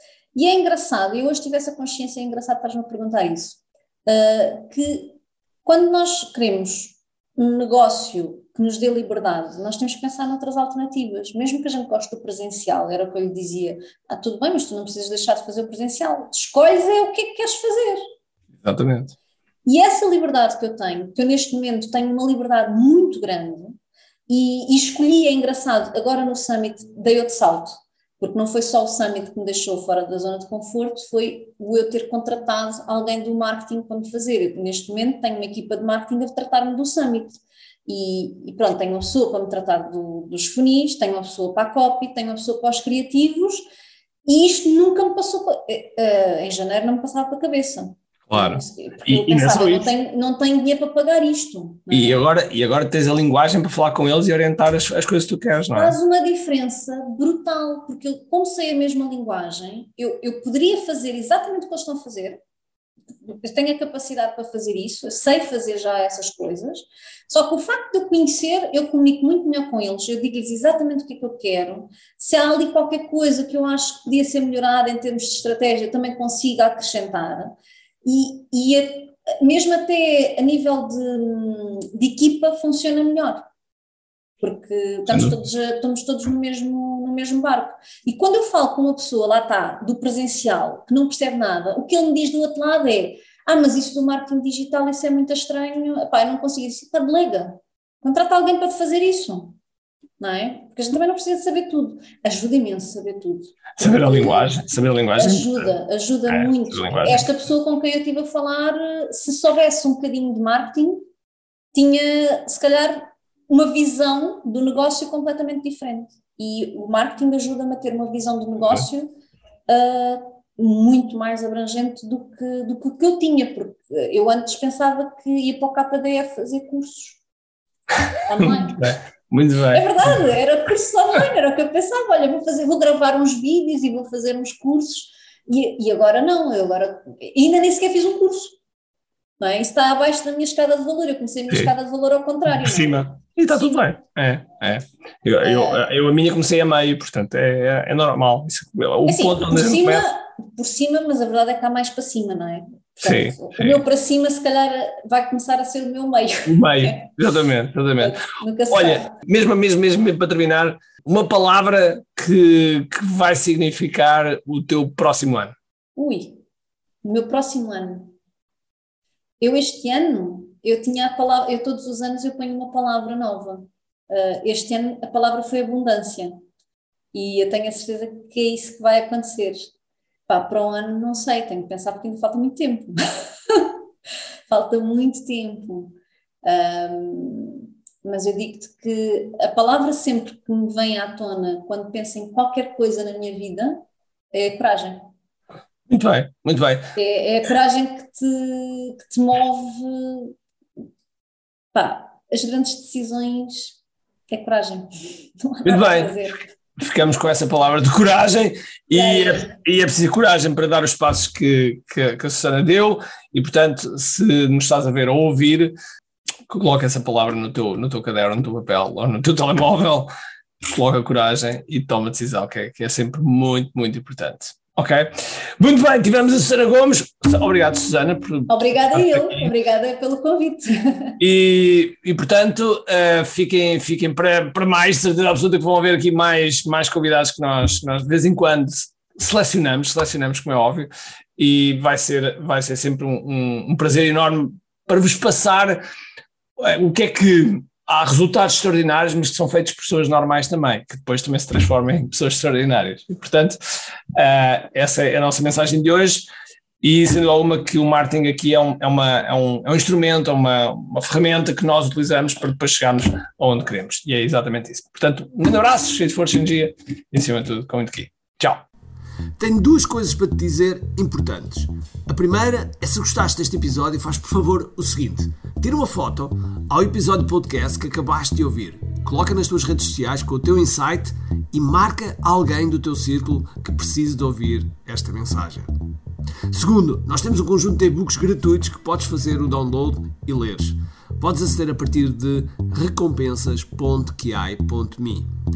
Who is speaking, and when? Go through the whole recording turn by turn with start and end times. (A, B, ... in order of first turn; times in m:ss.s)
0:00.3-0:18.0 A
0:18.6-0:19.2 B
0:19.6-0:23.8 A
0:24.3-0:43.6 A
0:44.2-0:52.2 A
0:48.3-0:49.9 B
0:51.9-0:56.0 B
0:55.7-1:02.4 A
1:03.2-1:23.4 A
1:24.4-1:39.6 A
1:25.1-1:25.4 B
1:40.2-1:44.6 A
1:43.8-1:45.7 B
1:45.2-1:51.0 A
1:46.3-1:47.3 B
1:51.7-1:59.1 A
1:59.7-2:07.2 A
2:08.2-2:09.0 A
2:08.4-2:10.2 B
2:09.7-2:18.5 A
2:19.4-2:23.1 A
2:22.5-2:30.0 B
2:25.4-2:25.8 A
2:29.0-2:37.1 A
2:33.0-2:33.8 B
2:36.4-2:38.2 B
2:38.0-2:39.1 A
2:38.7-2:45.5 B
2:46.0-2:46.4 A
2:47.0-2:48.1 A
2:49.4-2:56.4 A
2:57.1-2:59.7 A
3:00.3-3:03.8 A
3:04.5-3:15.0 A
3:15.9-3:16.9 B
3:16.9-3:20.3 A
3:21.7-3:23.8 A
3:24.3-3:24.9 A
3:25.4-3:26.5 A
3:25.6-3:26.1 B
3:26.8-3:35.7 B
3:28.9-3:29.5 A
3:36.5-3:40.1 B
3:40.6-3:49.5 B
3:48.5-3:51.2 A
3:51.2-4:05.8 B
4:06.6-4:13.6 B
4:14.1-4:16.3 B
4:16.8-4:28.6 B
4:29.4-4:45.7 C
4:46.5-4:55.3 C